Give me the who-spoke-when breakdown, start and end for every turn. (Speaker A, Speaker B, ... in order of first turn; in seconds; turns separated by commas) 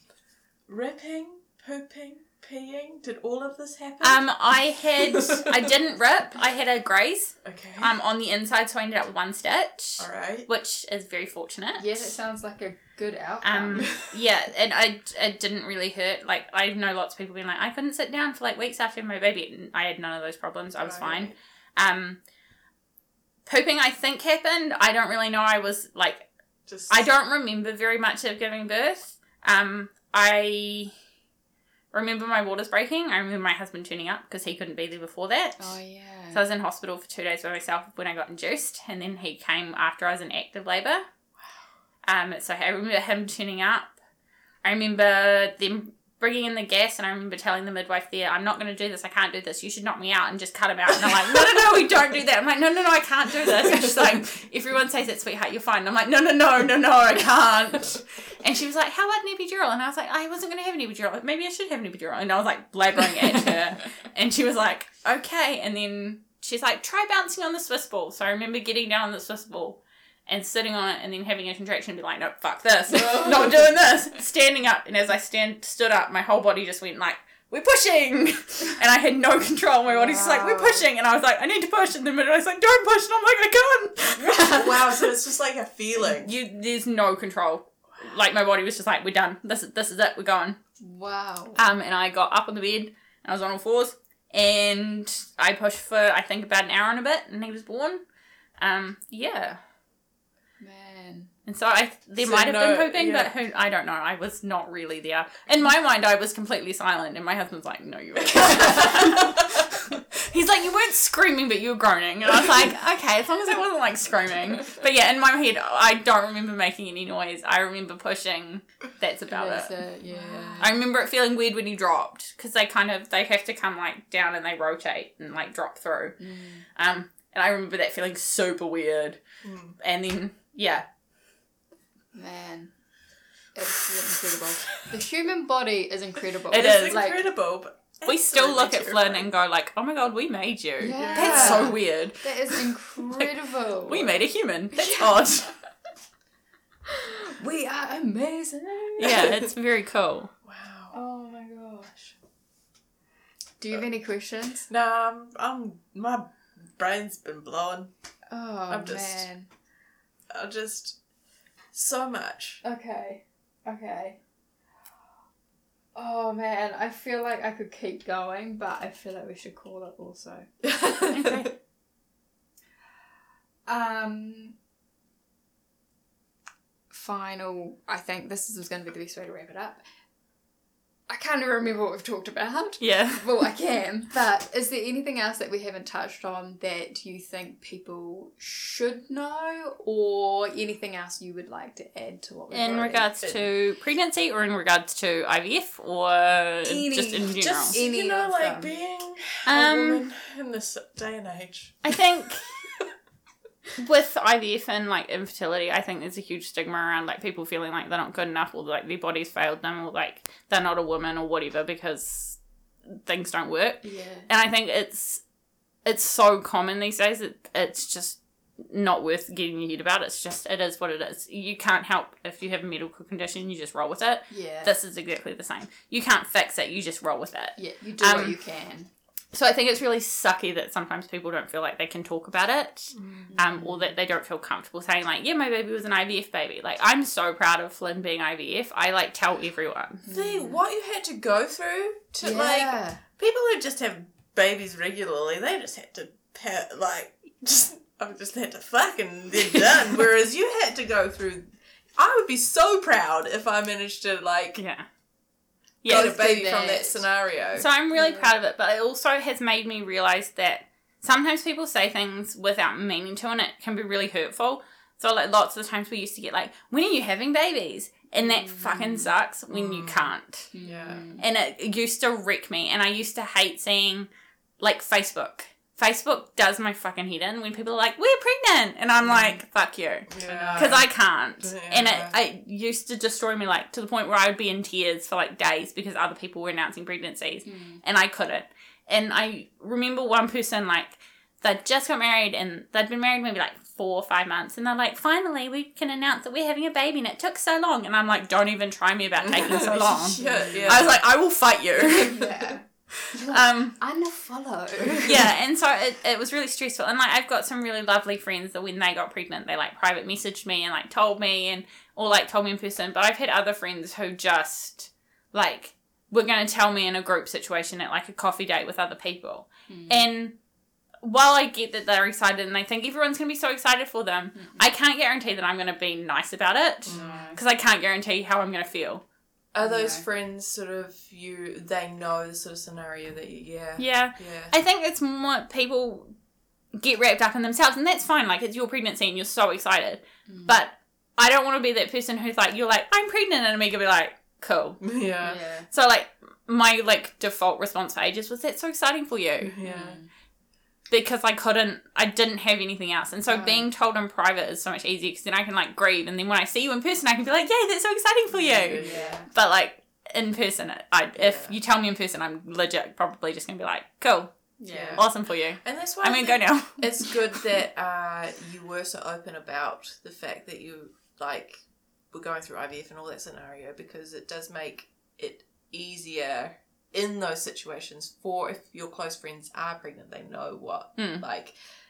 Speaker A: 0.7-4.3, Speaker B: 4.0-12.1, Speaker A: 5.1-5.5, Speaker A: 7.4-7.9, Speaker A: 10.0-10.5, Speaker C: 11.8-13.9, Speaker B: 13.4-22.2, Speaker A: 20.8-21.4, Speaker B: 23.4-26.3, Speaker A: 26.7-27.0, Speaker B: 26.9-30.9, Speaker B: 31.9-35.8, Speaker C: 35.6-36.4, Speaker B: 36.3-41.0, Speaker B: 42.0-43.9, Speaker B: 44.6-84.9, Speaker A: 53.6-53.9, Speaker A: 73.1-73.5, Speaker A: 79.9-80.8, Speaker A: 84.2-86.3, Speaker B: 86.0-90.6, Speaker C: 90.8-91.6, Speaker B: 91.5-98.0, Speaker B: 98.6-99.6, Speaker C: 100.6-101.3, Speaker B: 101.5-119.7, Speaker A: 102.2-103.3, Speaker A: 108.3-109.4, Speaker C: 119.3-120.7, Speaker A: 120.3-120.6, Speaker B: 120.6-126.2, Speaker C: 126.2-126.6, Speaker B: 126.8-129.2, Speaker A: 129.4-129.8, Speaker B: 129.8-130.8, Speaker C: 132.1-132.7, Speaker C: 133.5-137.2, Speaker B: 136.5-137.0, Speaker A: 136.5-139.3, Speaker B: 138.1-143.3, Speaker C: 140.8-144.2, Speaker A: 140.9-141.8, Speaker B: 143.8-145.5, Speaker C: 144.7-145.3, Speaker C: 146.9-149.3, Speaker B: 149.0-150.3, Speaker A: 150.4-151.0, Speaker C: 150.9-152.1, Speaker C: 153.6-154.7, Speaker A: 154.7-157.9, Speaker C: 158.3-159.5, Speaker A: 158.7-159.2, Speaker A: 160.3-160.9, Speaker A: 161.7-162.6, Speaker C: 162.6-164.2, Speaker C: 165.9-170.5, Speaker A: 170.6-171.4, Speaker B: 171.1-171.5, Speaker C: 173.7-174.6, Speaker C: 176.9-179.8, Speaker C: 181.1-193.1, Speaker B: 182.8-183.3, Speaker B: 192.5-197.8, Speaker C: 196.6-198.7, Speaker A: 197.5-201.9, Speaker B: 199.4-200.0, Speaker B: 201.8-202.6, Speaker B: 203.8-212.4, Speaker B: 212.9-215.2, Speaker C: 213.8-214.3, Speaker B: 215.8-228.3, Speaker C: 224.3-224.7, Speaker C: 227.6-228.9, Speaker B: 229.3-240.0, Speaker A: 232.9-233.3, Speaker C: 233.3-233.9, Speaker C: 240.0-240.6, Speaker A: 240.1-254.6, Speaker C: 242.2-243.0, Speaker B: 254.6-254.8, Speaker B: 255.8-256.1, Speaker A: 255.8-257.7, Speaker C: 255.9-257.0, Speaker B: 257.6-270.5, Speaker C: 257.9-258.3, Speaker C: 268.2-269.1, Speaker A: 269.5-271.1, Speaker C: 270.5-271.2, Speaker B: 271.2-274.1, Speaker B: 274.6-302.3, Speaker A: 279.0-279.4, Speaker A: 280.1-280.9, Speaker C: 280.2-280.8, Speaker A: 281.4-282.1, Speaker C: 287.4-287.8, Speaker A: 299.2-301.0, Speaker C: 300.1-300.9, Speaker C: 302.0-305.2, Speaker B: 303.1-303.8, Speaker B: 305.0-320.4, Speaker C: 319.7-320.1, Speaker B: 321.0-329.0, Speaker C: 324.4-324.6, Speaker A: 326.9-327.4, Speaker C: 326.9-327.4, Speaker A: 329.5-334.5, Speaker C: 329.6-330.0, Speaker B: 333.8-336.1, Speaker B: 336.8-344.8, Speaker C: 340.3-340.6, Speaker A: 344.8-345.4, Speaker C: 345.2-345.7, Speaker B: 345.7-349.5, Speaker A: 349.5-350.0, Speaker C: 349.6-350.1, Speaker B: 350.9-364.4, Speaker A: 358.3-359.2, Speaker C: 358.7-359.3, Speaker A: 361.1-361.5, Speaker C: 364.6-365.0, Speaker A: 364.7-365.1, Speaker B: 364.9-367.4, Speaker A: 365.6-381.5, Speaker B: 381.0-381.2